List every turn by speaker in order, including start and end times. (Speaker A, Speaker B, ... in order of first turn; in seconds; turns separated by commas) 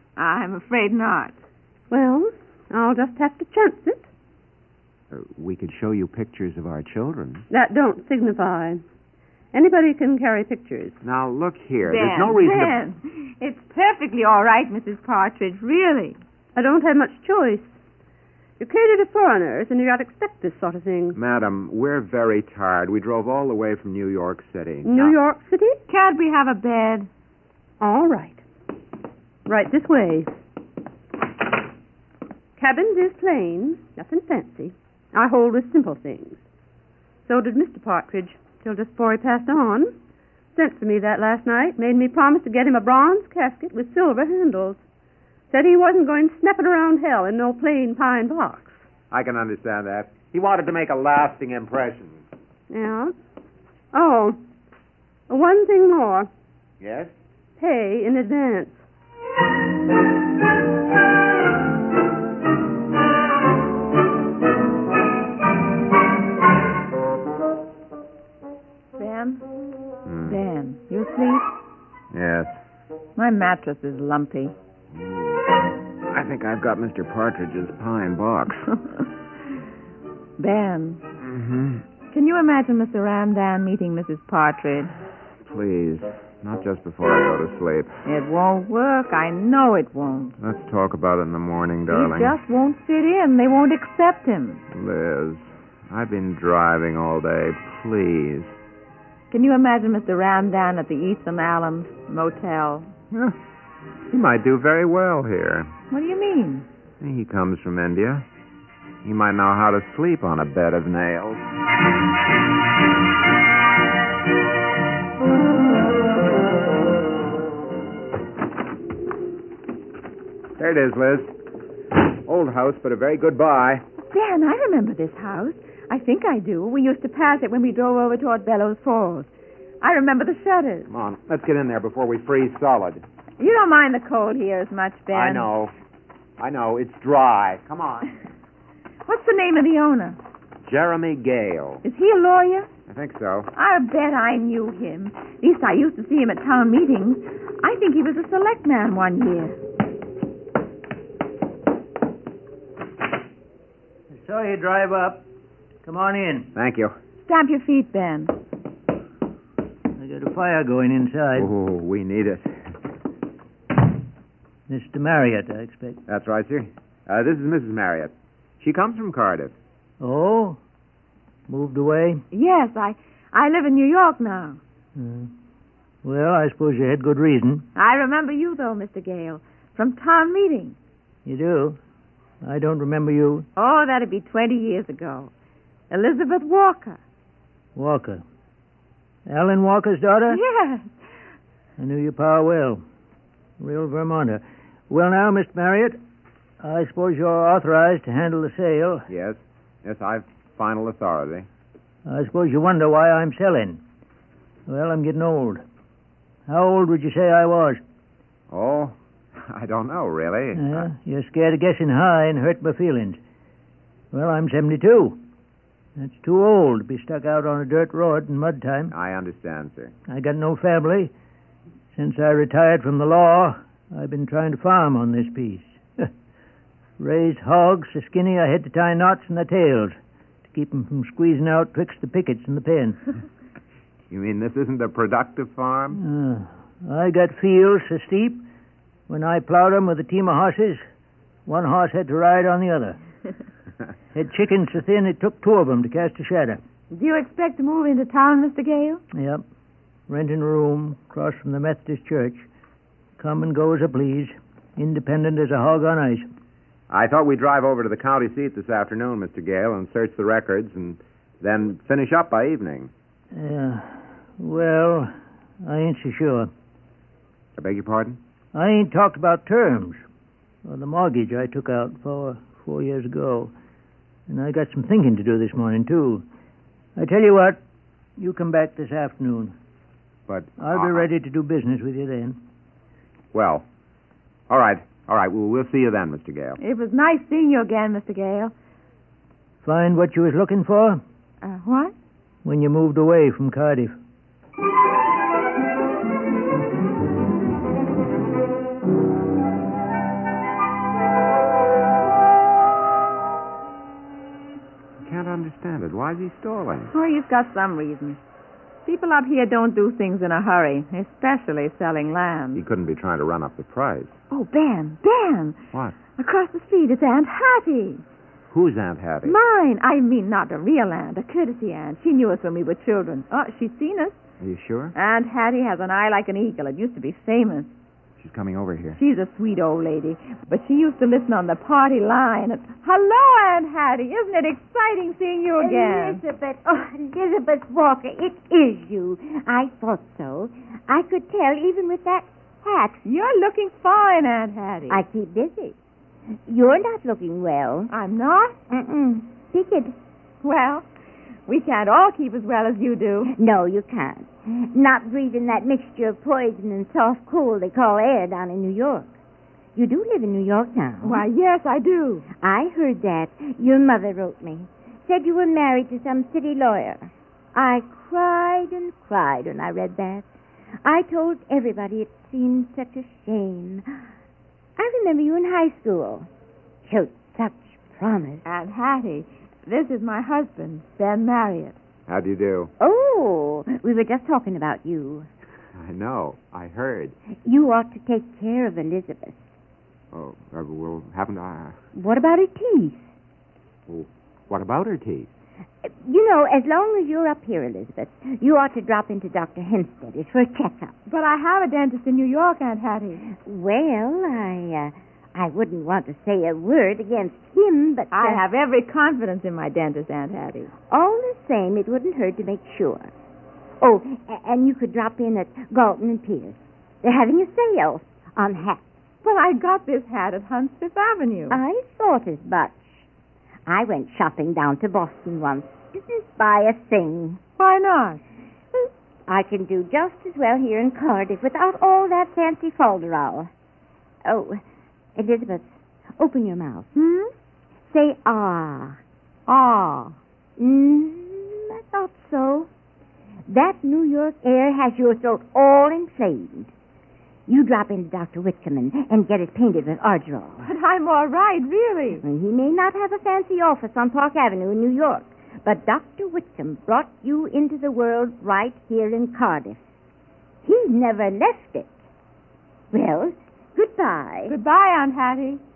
Speaker A: 0.2-1.4, Speaker B: 1.9-4.1, Speaker C: 5.1-7.5, Speaker B: 7.5-8.8, Speaker B: 9.5-11.0, Speaker C: 11.0-12.8, Speaker A: 11.8-16.2, Speaker B: 16.6-17.8, Speaker B: 18.6-21.2, Speaker C: 21.1-25.2, Speaker B: 24.9-25.8, Speaker A: 25.9-27.1, Speaker B: 27.8-28.4, Speaker B: 29.5-30.3, Speaker B: 32.6-36.4, Speaker B: 37.3-39.9, Speaker B: 40.5-44.8, Speaker B: 45.5-48.9, Speaker C: 49.1-52.2, Speaker B: 52.7-53.1, Speaker B: 53.9-54.4, Speaker B: 55.3-56.3, Speaker C: 56.8-57.1, Speaker B: 57.6-58.8, Speaker A: 69.0-69.4, Speaker C: 70.1-70.4, Speaker A: 70.2-71.5, Speaker C: 72.1-72.6, Speaker A: 73.2-74.5, Speaker C: 75.0-75.5, Speaker C: 76.1-78.7, Speaker A: 80.4-81.0, Speaker C: 81.2-81.8, Speaker A: 82.1-84.9, Speaker C: 85.4-88.0, Speaker A: 88.0-90.4, Speaker C: 90.4-92.4, Speaker A: 91.9-94.6, Speaker C: 94.7-98.6, Speaker A: 99.3-102.9, Speaker C: 103.1-103.4, Speaker C: 104.1-105.7, Speaker A: 105.9-106.7, Speaker C: 107.0-108.3, Speaker C: 109.0-111.5, Speaker C: 120.6-121.3, Speaker C: 122.1-123.8, Speaker A: 124.0-129.3, Speaker A: 129.8-130.9, Speaker C: 130.9-133.0, Speaker A: 133.4-135.5, Speaker C: 135.1-135.7, Speaker C: 136.4-138.1, Speaker A: 139.1-140.2, Speaker C: 140.7-141.8, Speaker A: 141.8-142.7, Speaker C: 142.9-143.5, Speaker A: 143.6-149.6, Speaker D: 154.1-155.2, Speaker D: 155.8-156.5, Speaker C: 156.6-157.0, Speaker A: 157.2-158.3, Speaker D: 160.0-161.5, Speaker C: 161.4-162.7, Speaker D: 164.7-166.0, Speaker C: 166.1-169.6, Speaker D: 170.0-170.6, Speaker D: 171.5-172.2, Speaker A: 172.3-174.6, Speaker D: 175.0-175.3, Speaker D: 176.0-177.7, Speaker A: 177.8-180.8, Speaker D: 181.2-181.8, Speaker D: 182.4-183.5, Speaker A: 183.6-185.3, Speaker A: 185.9-187.0, Speaker D: 187.8-188.2, Speaker D: 189.3-190.4, Speaker A: 190.3-190.9, Speaker D: 191.8-192.8, Speaker D: 193.6-196.0, Speaker D: 196.6-199.1, Speaker C: 199.1-201.5, Speaker D: 202.1-203.8, Speaker D: 204.7-205.6, Speaker D: 206.5-207.8, Speaker C: 208.5-210.9, Speaker D: 210.6-213.2, Speaker D: 214.1-215.2, Speaker D: 216.0-218.9, Speaker C: 218.9-219.9, Speaker D: 220.1-221.1, Speaker D: 221.9-226.1, Speaker D: 227.0-230.0, Speaker D: 230.5-233.0, Speaker C: 234.1-236.0, Speaker D: 235.9-238.4, Speaker D: 239.1-240.8, Speaker D: 241.5-243.0, Speaker D: 244.1-246.6, Speaker A: 246.9-249.0, Speaker D: 249.1-249.4, Speaker D: 250.1-252.5, Speaker D: 253.2-256.3, Speaker C: 256.9-262.9, Speaker D: 263.3-266.5, Speaker C: 267.6-268.2, Speaker D: 268.5-270.0, Speaker D: 270.6-273.5, Speaker D: 274.3-276.2, Speaker D: 277.0-277.6, Speaker D: 278.2-279.5, Speaker C: 280.3-281.1, Speaker D: 280.6-282.4, Speaker C: 283.3-283.6, Speaker C: 284.5-286.6, Speaker A: 286.6-288.5, Speaker D: 289.6-291.0, Speaker A: 291.4-291.9, Speaker D: 292.4-294.0, Speaker C: 305.0-306.9, Speaker A: 306.9-308.2, Speaker A: 308.9-312.6, Speaker C: 312.6-314.2, Speaker A: 314.3-315.6, Speaker A: 316.2-318.0, Speaker C: 318.5-319.4, Speaker A: 319.2-324.2, Speaker C: 324.4-324.9, Speaker A: 325.0-327.7, Speaker C: 328.2-329.0, Speaker A: 329.0-336.2, Speaker E: 335.6-343.0, Speaker A: 343.1-345.0, Speaker E: 344.9-345.8, Speaker E: 346.5-347.9, Speaker A: 347.9-348.6, Speaker E: 348.7-349.9, Speaker A: 350.4-350.9, Speaker A: 351.5-353.4, Speaker E: 353.3-359.1, Speaker E: 359.8-361.2, Speaker A: 361.0-362.3, Speaker E: 362.4-370.3, Speaker E: 370.8-374.0, Speaker E: 374.8-376.3, Speaker E: 376.9-378.4, Speaker A: 378.4-381.8, Speaker C: 382.1-382.7, Speaker E: 382.8-385.3, Speaker C: 385.8-387.2, Speaker E: 387.4-389.4, Speaker C: 390.1-391.8, Speaker E: 391.9-393.1, Speaker C: 393.9-395.3, Speaker E: 395.8-400.9, Speaker A: 401.1-403.3, Speaker E: 403.3-408.4, Speaker A: 408.1-410.7, Speaker E: 410.9-413.1, Speaker E: 413.8-418.8, Speaker A: 419.2-421.6, Speaker E: 421.5-422.9, Speaker E: 423.7-427.4, Speaker A: 427.6-428.2, Speaker E: 428.8-433.5, Speaker E: 434.2-434.6, Speaker E: 435.2-436.9, Speaker A: 436.9-437.3, Speaker E: 437.9-439.0, Speaker A: 439.5-440.2, Speaker E: 440.6-442.7, Speaker E: 443.5-446.7, Speaker E: 447.5-450.7, Speaker A: 450.6-452.2, Speaker E: 452.2-459.8, Speaker E: 460.6-462.0, Speaker E: 462.9-464.5, Speaker A: 464.5-465.6